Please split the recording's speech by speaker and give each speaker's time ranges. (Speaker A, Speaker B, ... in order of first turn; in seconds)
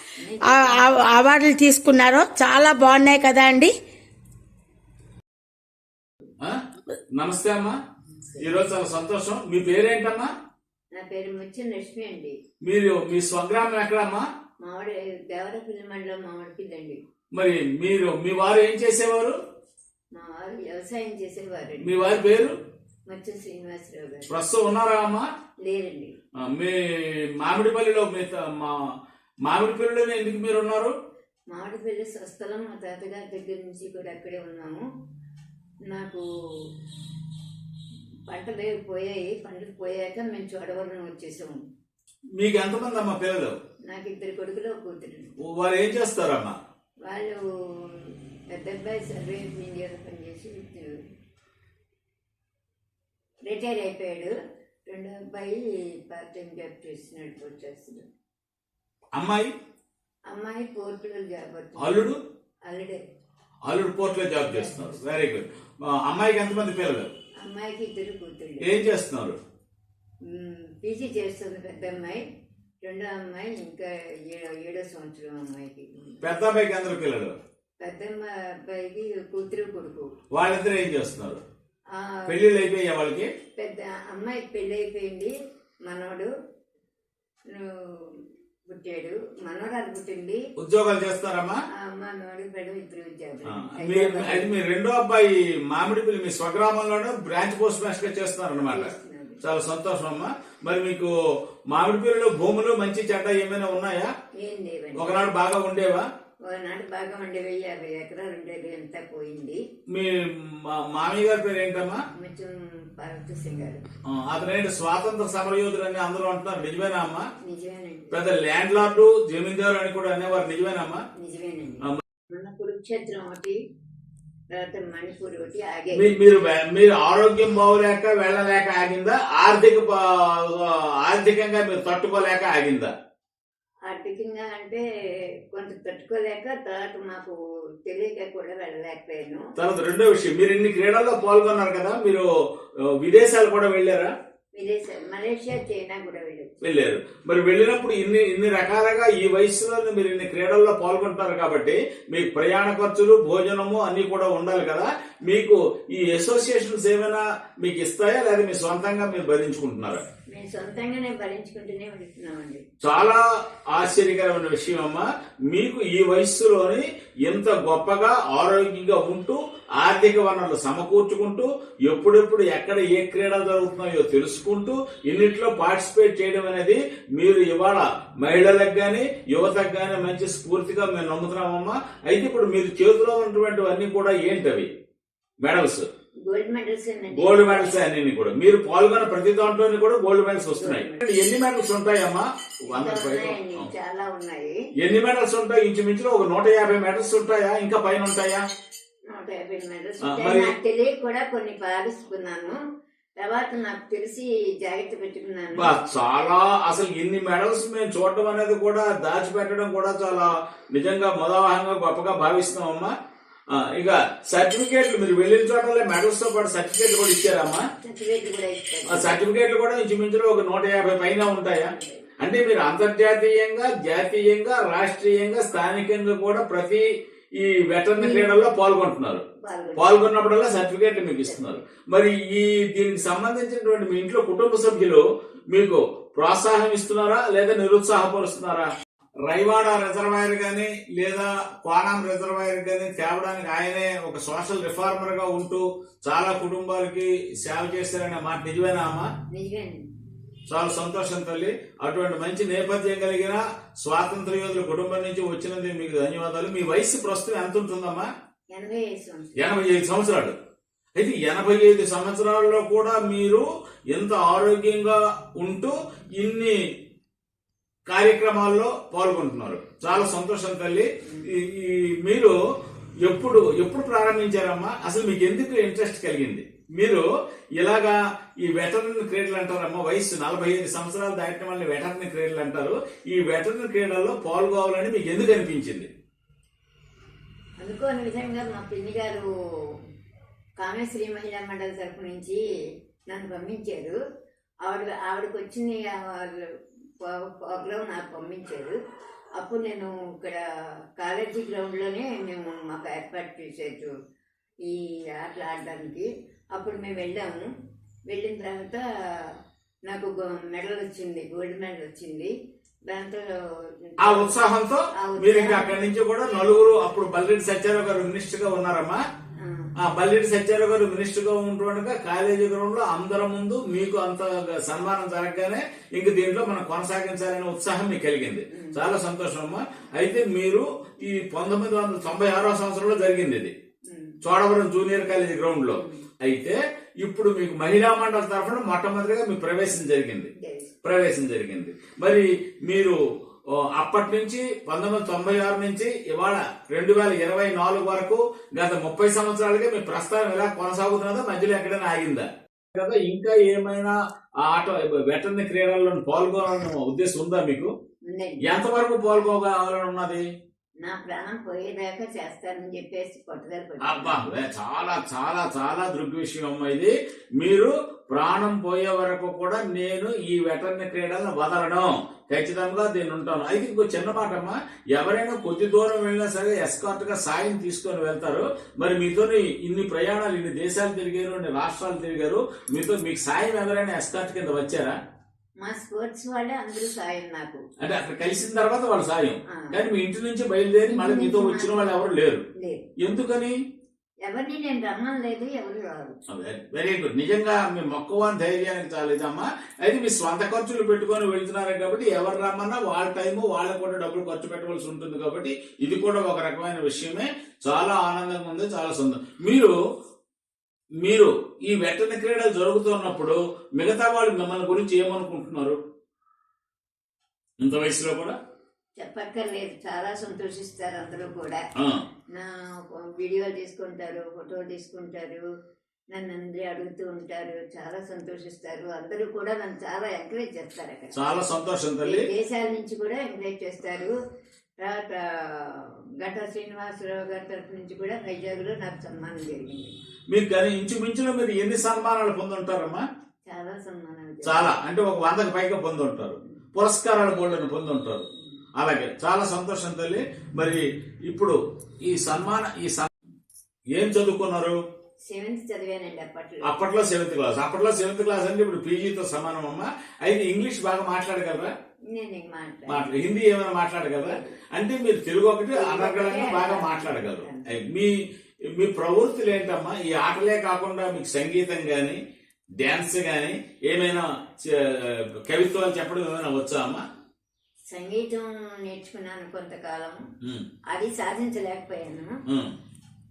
Speaker A: 0.2-1.1, 10.9-12.4, 14.6-17.0, 20.1-22.2, 23.1-24.3, 25.6-26.1, 31.5-34.9, 35.9-36.3, 38.3-41.6, 43.9-45.3, 47.1-51.0, 53.5-54.3, 54.9-58.1, 60.3-62.1, 62.7-63.0, 67.4-68.7, 70.2-72.2, 72.8-76.2, 77.8-80.1, 81.9-82.4, 83.6-85.3, 85.8-86.3, 87.5-88.2, 88.7-90.4, 91.8-94.5, 98.7-99.4, 104.4-105.2, 106.5-109.6, 112.2-113.8, 117.4-118.2, 121.2-123.6, 124.5-126.2, 133.9-134.8, 135.5-139.5, 144.6-146.5, 160.3-162.7, 186.3-187.8, 190.5-191.0, 192.7-194.6, 199.1-202.6, 203.2-205.8, 217.8-219.2, 221.5-222.0, 228.0-228.3, 229.4-230.4, 231.0-231.6, 249.3-249.9, 258.5-259.4, 271.0-271.3, 287.6-289.8, 290.6-292.4, 293.1-294.0, 294.6-296.5, 297.0-298.8, 299.4-300.4, 301.0-303.9, 304.6-307.5, 308.1-308.9, 309.9-312.3, 312.9-314.4, 315.0-315.8, 319.4-319.7, 328.5-328.9, 333.9-334.2, 335.7-336.1, 340.4-340.7, 358.1-358.5, 360.8-364.3, 385.6-387.6, 389.5-389.8, 390.9-392.0, 392.5-392.9, 394.3-396.2, 419.0-421.6, 422.3-425.4, 426.1-431.4, 432.0-434.1, 434.8-439.9, 443.4-444.8, 455.3-456.8, 462.1-463.2, 464.2-464.5, 465.7-467.7, 477.9-480.2, 480.9-482.4
Speaker B: 0.5-3.7
Speaker C: 7.2-7.8, 8.4-10.3, 12.6-14.3, 17.3-19.4, 21.8-22.5, 24.3-25.3, 26.4-28.8, 29.4-30.9, 42.4-43.6, 45.5-46.5, 59.1-59.5, 61.8-62.2, 63.7-67.1, 68.6-69.4, 76.2-77.3, 80.3-81.4, 82.3-83.3, 90.6-91.6, 93.5-98.9, 99.4-101.1, 101.7-104.1, 105.0-106.0, 109.9-112.0, 114.1-117.3, 118.1-121.0, 126.0-132.9, 139.6-142.3, 143.0-144.1, 146.6-160.0, 162.8-184.7, 185.4-185.9, 187.2-193.7, 194.8-198.4, 200.1-200.5, 205.6-212.9, 213.5-217.6, 218.9-226.9, 227.4-229.2, 229.8-238.7, 239.3-249.1, 250.5-258.1, 259.4-260.4, 261.0-266.6, 267.9-272.4, 273.0-277.1, 277.6-285.9, 314.0-319.0, 319.8-333.5, 334.2-340.3, 340.8-343.0, 343.7-357.7, 358.4-360.3, 363.8-385.0, 387.8-392.4, 393.0-393.6, 396.3-409.8, 411.0-415.8, 417.6-418.4, 431.1-432.2, 440.3-443.0, 444.4-448.2, 448.8-453.1, 454.0-454.8, 456.7-461.7, 462.9-468.1, 468.8-472.2, 472.8-477.0, 482.5-482.7